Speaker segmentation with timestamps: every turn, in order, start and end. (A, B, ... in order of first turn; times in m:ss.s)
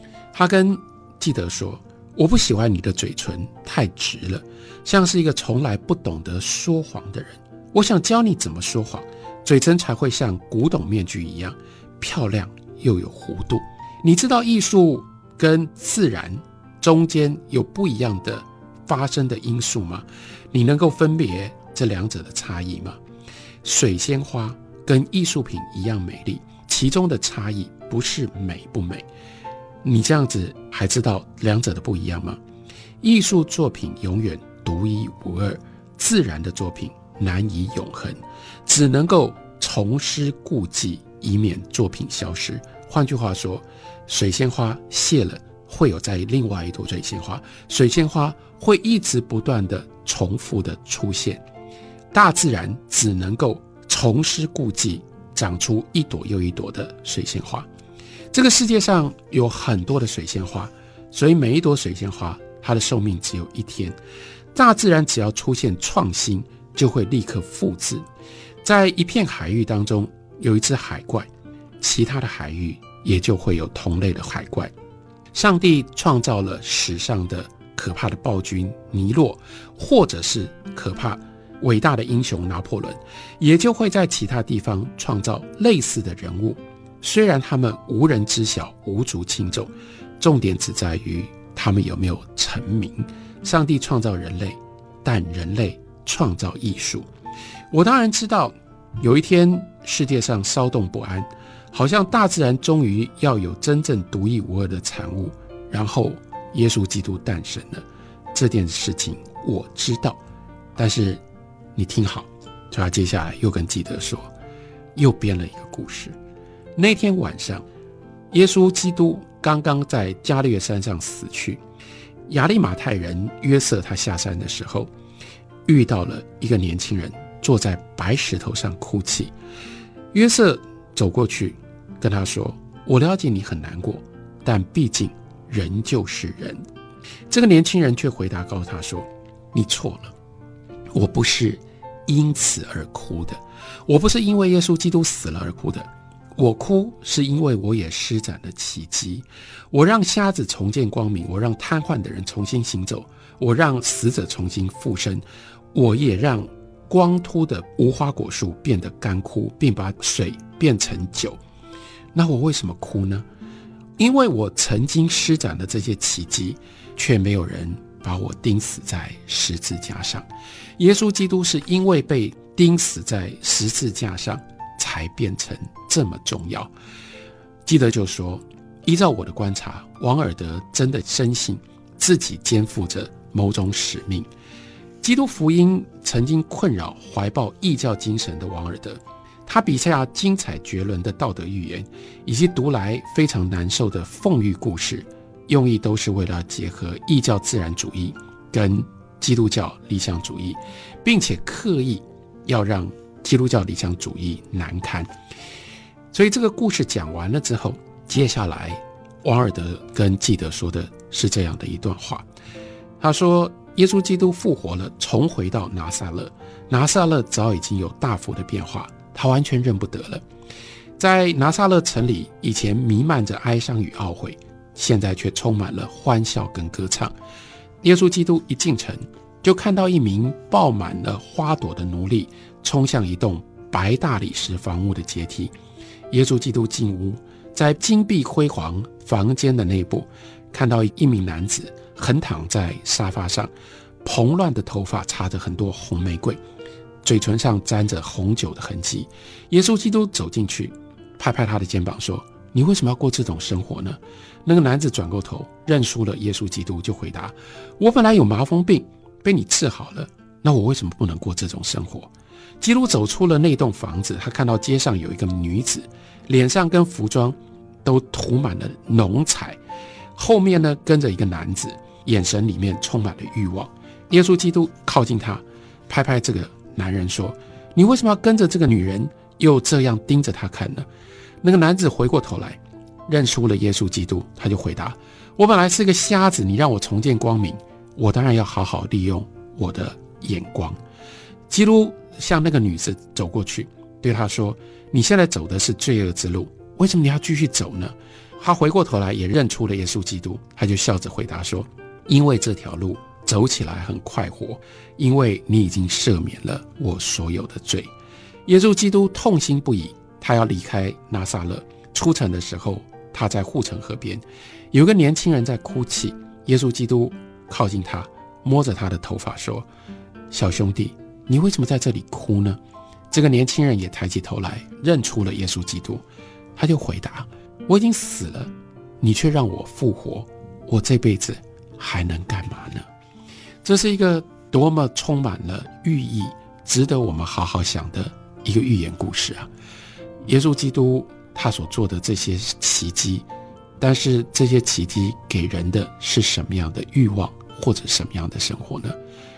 0:00.3-0:23.0 A
0:23.6-0:29.1 A
0:29.8-0:32.4 A
0:33.0-0:51.4 A
0:52.1-0:57.7 A
0:58.3-1:04.0 A
1:04.5-1:08.0 A
1:08.6-1:11.3 A
1:11.8-1:14.7 A
1:15.3-1:37.1 A
1:37.7-1:50.2 A
1:50.8-1:51.2 A
1:51.7-1:54.3 A
1:54.9-1:56.2 A
1:56.8-1:57.6 A
1:58.3-2:01.6 A
2:02.3-2:04.9 A
2:05.6-2:09.3 A
2:10.1-2:16.6 A
2:17.3-2:20.1 A
2:20.9-2:41.4 A
2:42.1-2:43.2 A
2:44.0-2:50.3 A
2:50.8-2:56.7 A
2:57.6-3:04.3 A
3:05.0-3:25.1 A
3:26.1-3:32.2 A
3:33.0-3:40.2 A
3:41.0-3:47.1 A
3:47.8-3:55.5 A
3:56.1-4:03.5 A
4:04.0-4:06.4 A
4:07.0-4:29.6 A
4:30.2-4:40.9 A
4:41.4-4:50.8 A
4:51.5-5:07.9 A
5:08.4-5:19.7 A
5:20.3-5:22.6 A
5:23.1-5:26.0 A
5:26.6-5:32.9 A
5:33.6-5:39.5 A
5:40.2-5:43.3 A
5:43.8-5:49.0 A